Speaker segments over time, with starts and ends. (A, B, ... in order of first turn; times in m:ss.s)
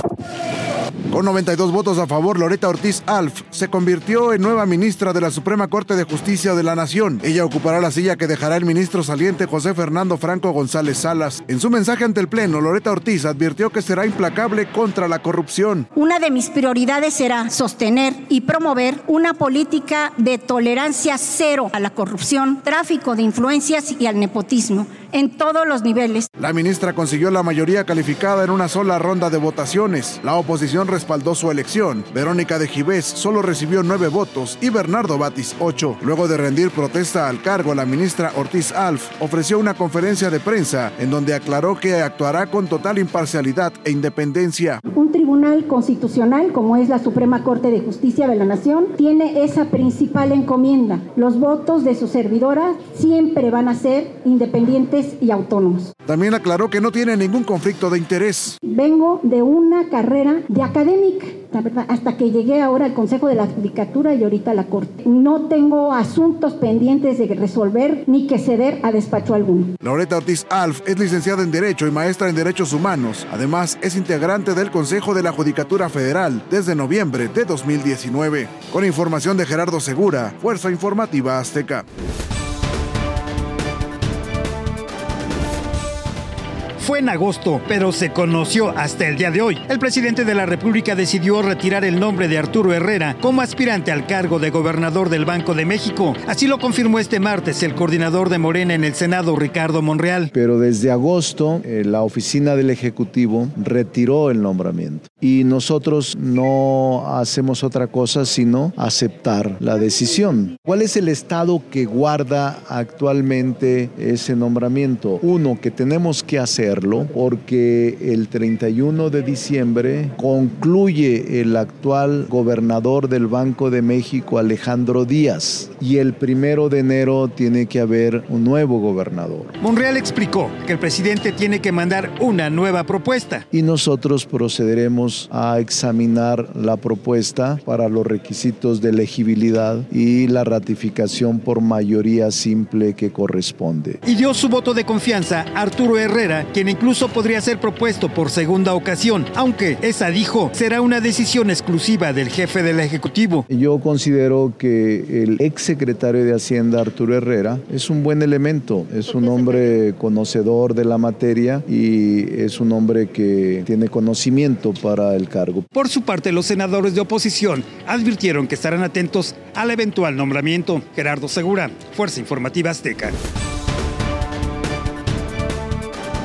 0:01.1-0:15.9 A
0:15.9-0:26.3 B
0:26.4-0:44.8 A
0:44.9-0:55.9 B
0:56.1-0:58.6 A
0:58.6-1:09.7 B
1:09.8-1:21.8 A
1:26.8-1:40.3 C
1:40.3-2:09.5 D
2:09.6-2:13.4 C
2:13.5-2:24.0 D
2:24.0-2:33.4 C
2:33.5-2:45.7 D
2:45.8-2:53.2 C